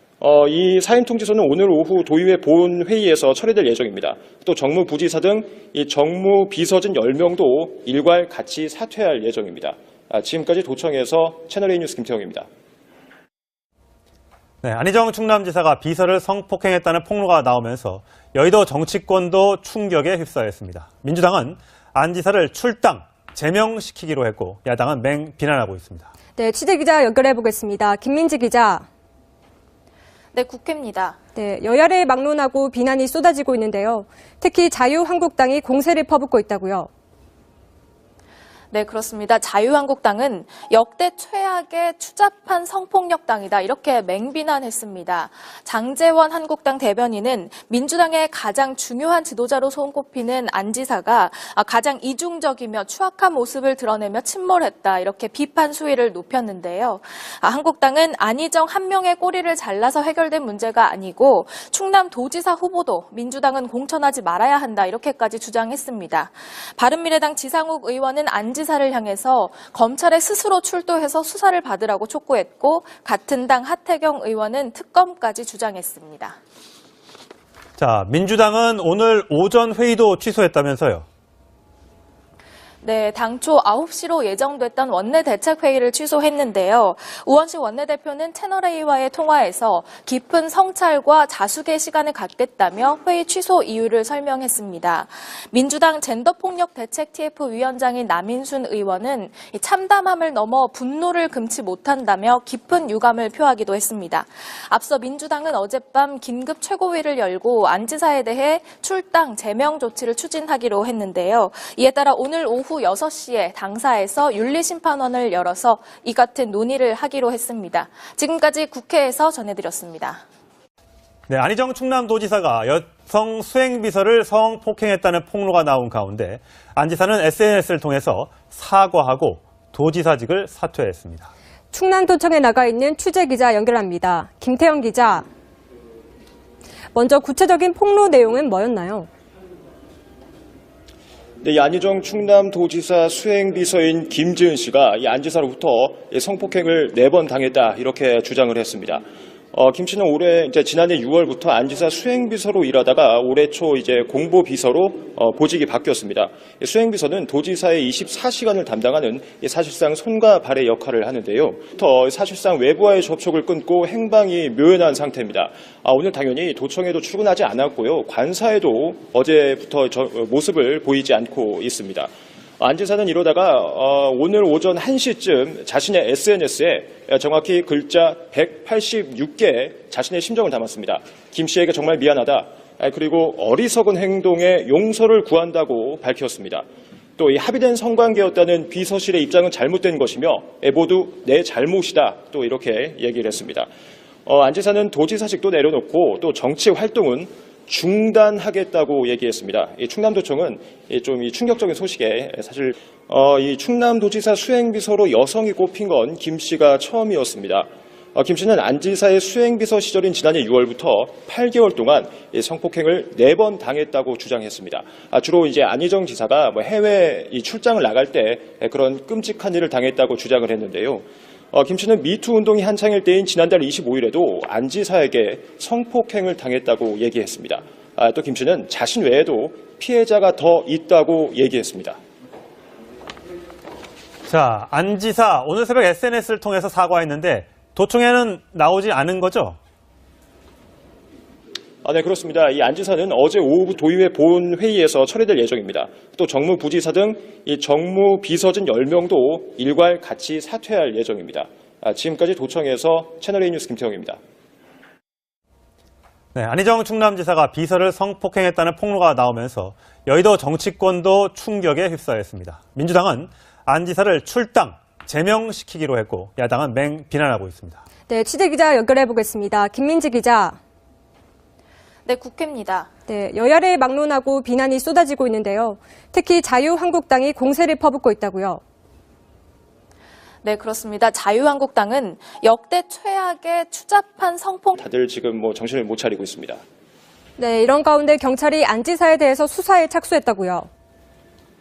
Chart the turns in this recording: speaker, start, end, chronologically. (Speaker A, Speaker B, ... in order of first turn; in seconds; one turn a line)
Speaker A: 0.2-12.5
Speaker B: 14.6-26.1
Speaker C: 26.4-28.8
Speaker D: 30.3-31.2
Speaker C: 31.3-36.9
Speaker D: 38.7-76.4
Speaker B: 77.8-81.0
Speaker D: 82.8-120.2
Speaker B: 121.3-131.3
Speaker C: 131.7-135.3
Speaker C: 136.9-139.1
Speaker A: 141.4-186.7
Speaker A: 187.2-193.7
Speaker A: 194.2-232.0
Speaker B: 234.3-239.6
Speaker A: 241.8-254.2
Speaker B: 256.3-267.8
Speaker C: 268.1-270.6
Speaker D: 272.1-272.9
Speaker C: 273.1-278.6
Speaker D: 280.4-284.8
Speaker A: 284.8-286.6
Speaker C: 287.4-290.7